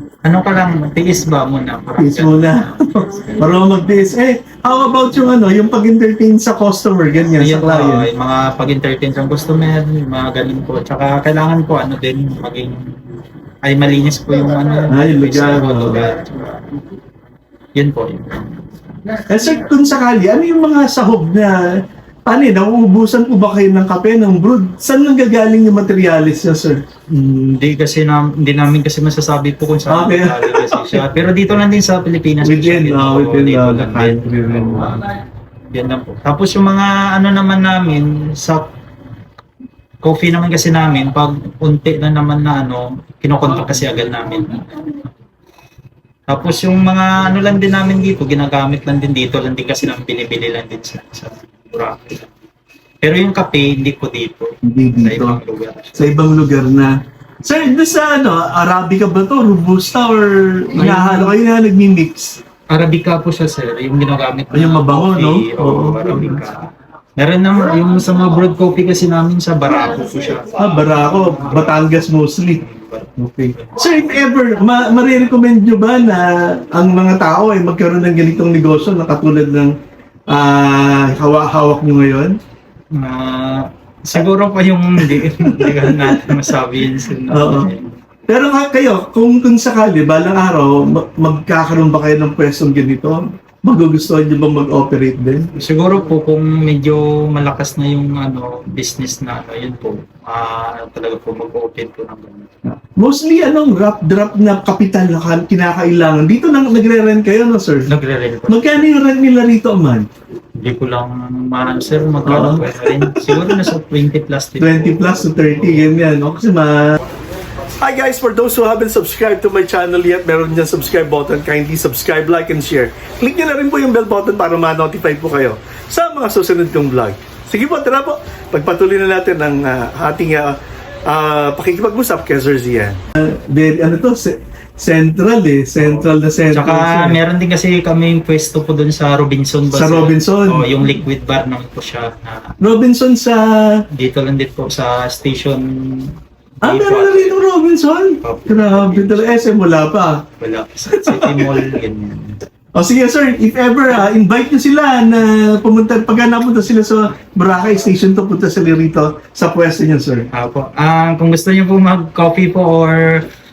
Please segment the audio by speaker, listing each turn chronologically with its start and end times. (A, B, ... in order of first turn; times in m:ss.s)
0:00.2-0:03.4 A
0:02.0-0:08.1 B
0:07.4-0:16.8 A
0:14.9-0:16.1 B
0:17.7-0:18.8 A
0:19.3-0:21.6 B
0:22.2-0:26.8 B
0:27.1-0:38.6 A
0:29.9-0:31.0 B
0:32.4-0:35.0 B
0:40.0-0:45.0 A
0:46.3-0:52.4 A
0:53.0-0:56.2 A
0:54.6-0:55.4 B
0:56.0-1:02.4 B
1:00.7-1:01.4 A
1:02.7-1:14.2 A
1:04.5-1:06.5 B
1:10.6-1:12.6 B
1:13.2-1:19.7 B
1:20.3-1:22.4 B
1:22.9-1:27.9 A
1:25.0-1:26.6 B
1:27.3-1:27.7 B
1:28.3-1:35.5 B
1:35.6-1:42.5 A
1:42.7-1:47.9 B
1:47.9-1:48.8 A
1:48.5-1:50.1 B
1:50.6-1:56.0 A
1:52.2-1:53.7 B
1:54.6-1:57.0 B
1:57.8-2:10.6 B
2:11.1-2:17.2 B
2:15.8-2:22.5 A
2:19.7-2:20.7 B
2:22.6-2:23.8 B
2:23.9-2:27.4 A
2:26.6-2:30.2 B
2:28.2-2:29.3 A
2:30.4-2:32.4 A
2:30.9-2:31.6 B
2:32.7-2:40.3 B
2:40.3-2:43.3 A